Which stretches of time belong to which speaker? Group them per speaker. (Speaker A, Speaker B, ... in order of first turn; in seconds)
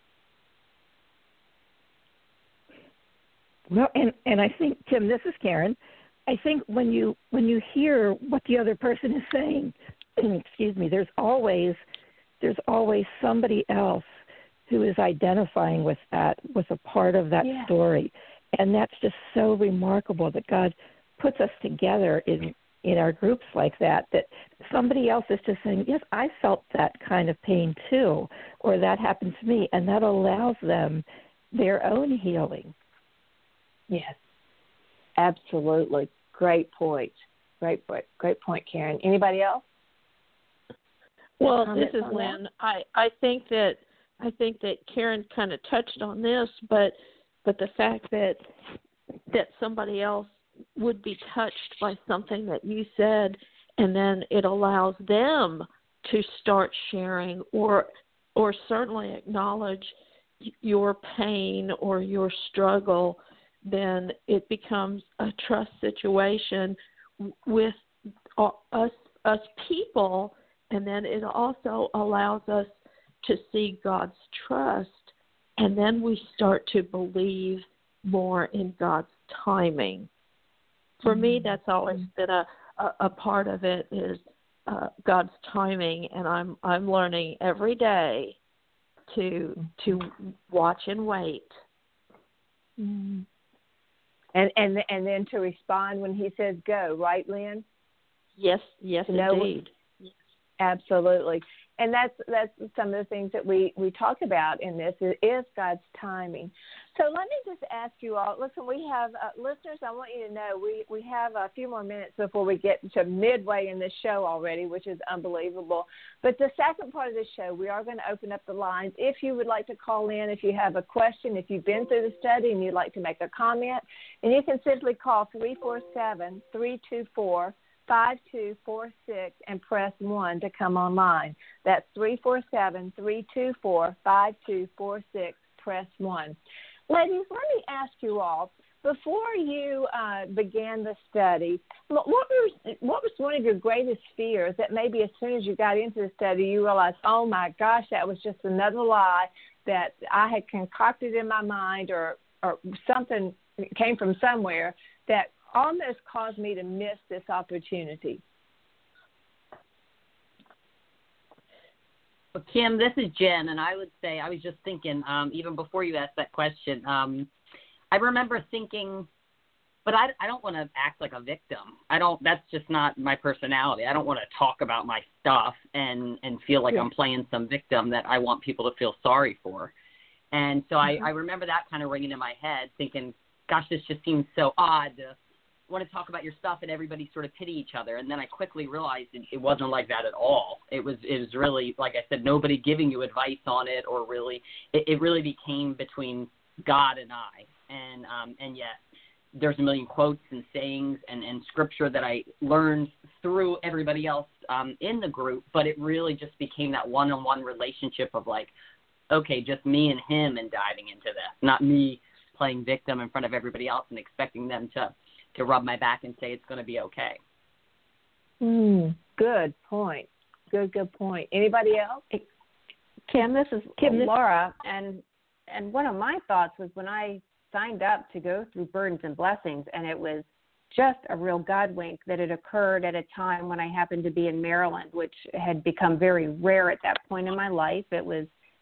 Speaker A: 3.7-11.8, 12.4-32.7, 223.8-224.1
Speaker B: 17.4-17.7, 33.9-34.2, 35.2-39.6, 41.5-42.4, 81.1-81.5, 92.8-93.3, 94.3-97.6, 99.1-99.5, 100.6-136.4, 136.9-158.2, 218.4-222.0
Speaker C: 41.4-48.4, 49.3-67.8, 68.4-80.1, 81.0-88.4, 89.1-91.6, 98.4-100.1
Speaker D: 162.3-167.3, 167.9-169.1, 169.8-179.7, 180.3-185.2, 185.7-198.8, 199.3-208.5, 209.1-217.2
Speaker E: 223.1-238.3